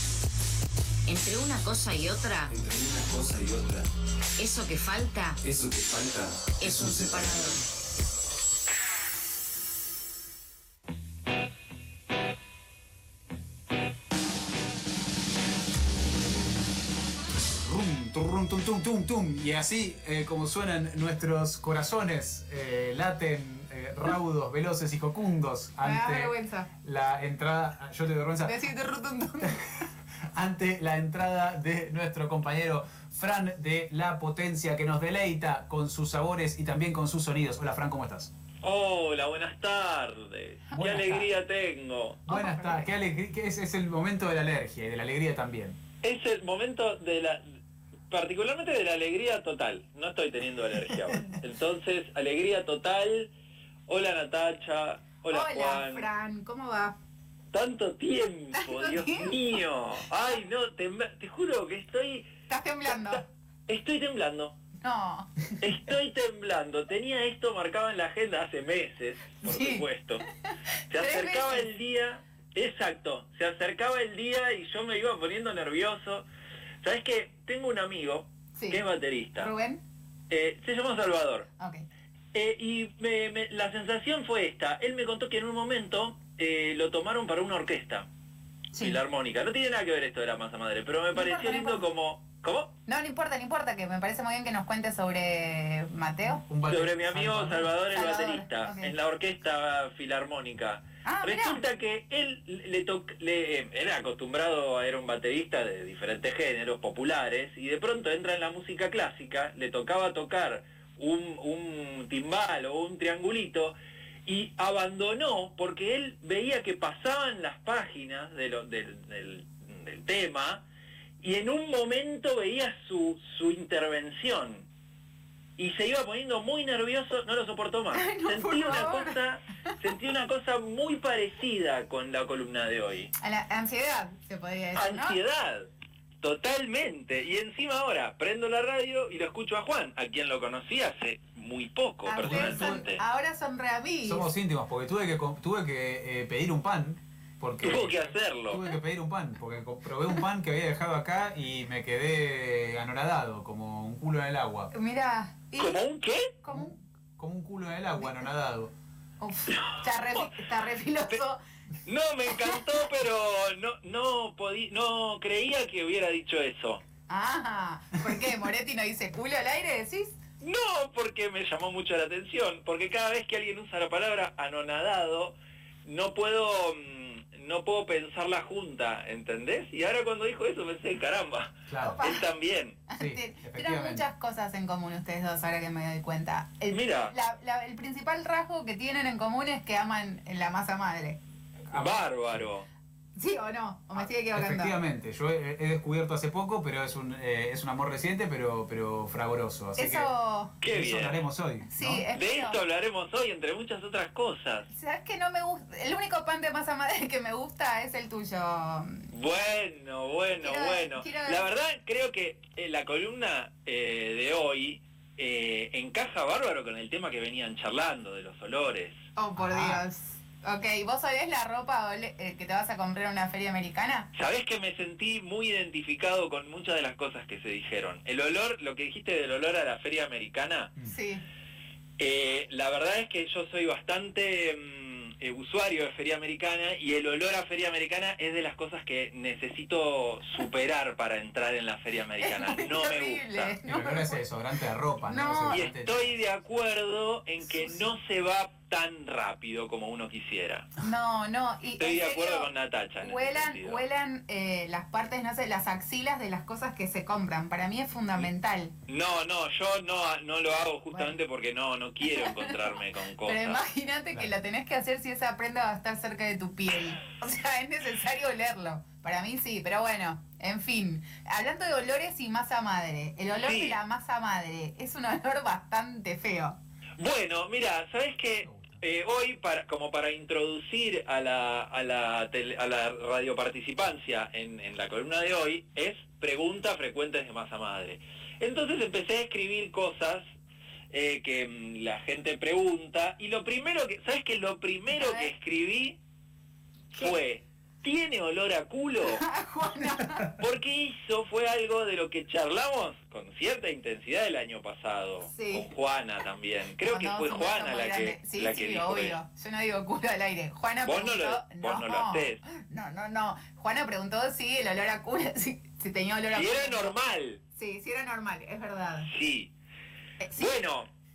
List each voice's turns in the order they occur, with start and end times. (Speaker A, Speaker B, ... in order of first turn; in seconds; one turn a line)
Speaker A: 1.1-2.5
Speaker B: 2.5-3.8
Speaker A: 4.4-5.4
Speaker B: 5.4-7.6
Speaker A: 6.6-7.7
Speaker C: 17.4-28.6
Speaker D: 25.8-26.7
Speaker D: 28.4-29.6
Speaker C: 29.4-38.3
Speaker E: 38.6-42.3
Speaker C: 40.7-41.3
Speaker C: 42.3-45.8
Speaker D: 42.3-42.9
Speaker E: 46.0-47.4
Speaker E: 48.1-53.3
Speaker C: 50.9-51.2
Speaker E: 53.9-56.1
Speaker D: 55.3-56.9
Speaker E: 57.5-62.3
Speaker D: 58.5-59.5
Speaker D: 62.5-63.2
Speaker E: 62.9-64.5
Speaker D: 64.8-65.6
Speaker E: 65.6-70.2
Speaker D: 69.4-69.8
Speaker E: 70.9-76.2
Speaker D: 70.9-71.7
Speaker E: 76.8-79.5
Speaker D: 78.5-78.8
Speaker D: 79.3-79.8
Speaker E: 80.3-81.5
Speaker D: 81.6-81.8
Speaker E: 82.3-88.1
Speaker D: 88.7-89.0
Speaker E: 88.8-92.7
Speaker D: 91.1-91.8
Speaker D: 92.9-96.4
Speaker C: 96.4-97.7
Speaker E: 96.7-113.7
Speaker D: 97.9-98.9
Speaker D: 101.0-101.6
Speaker E: 114.2-120.6
Speaker E: 121.2-124.7
Speaker E: 125.6-133.1
Speaker D: 127.9-129.2
Speaker D: 133.2-135.2
Speaker E: 134.7-135.7
Speaker E: 136.2-143.0
Speaker D: 142.0-144.3
Speaker C: 142.2-142.8
Speaker C: 144.0-154.7
Speaker E: 147.6-148.6
Speaker D: 154.7-155.8
Speaker E: 155.6-156.3
Speaker D: 156.4-156.8
Speaker C: 156.5-158.7
Speaker D: 159.2-161.4
Speaker E: 159.5-160.2
Speaker E: 161.8-166.8
Speaker D: 162.3-162.8
Speaker D: 167.1-170.2
Speaker E: 170.4-182.8
Speaker C: 181.7-182.0
Speaker D: 181.8-182.3
Speaker D: 182.9-191.2
Speaker C: 183.0-184.0
Speaker E: 186.7-187.1
Speaker C: 191.7-192.4
Speaker E: 191.7-192.7
Speaker D: 193.2-194.7
Speaker C: 194.3-200.1
Speaker D: 199.8-200.6
Speaker E: 200.6-201.2
Speaker C: 200.7-202.1
Speaker D: 201.7-202.6
Speaker E: 202.1-204.7
Speaker D: 204.7-209.0
Speaker E: 209.1-219.0
Speaker D: 210.4-211.4
Speaker D: 219.2-224.1
Speaker C: 219.4-219.8
Speaker E: 224.1-230.7
Speaker D: 230.8-231.2
Speaker E: 232.0-243.6
Speaker D: 242.2-244.2
Speaker C: 243.6-246.1
Speaker D: 245.0-245.7
Speaker E: 245.5-250.7
Speaker D: 250.8-258.7
Speaker E: 251.8-253.8
Speaker E: 258.9-263.6
Speaker D: 262.0-276.6
Speaker E: 273.4-273.8
Speaker E: 277.0-290.2
Speaker C: 278.4-278.8
Speaker E: 290.9-296.0
Speaker D: 294.9-295.3
Speaker E: 296.9-299.2
Speaker D: 299.0-300.4
Speaker E: 300.3-309.2
Speaker D: 305.2-305.7
Speaker D: 306.8-316.9
Speaker E: 310.8-312.4
Speaker E: 316.3-317.4
Speaker D: 317.6-319.1
Speaker E: 319.1-319.5
Speaker D: 320.2-320.6
Speaker E: 320.4-320.9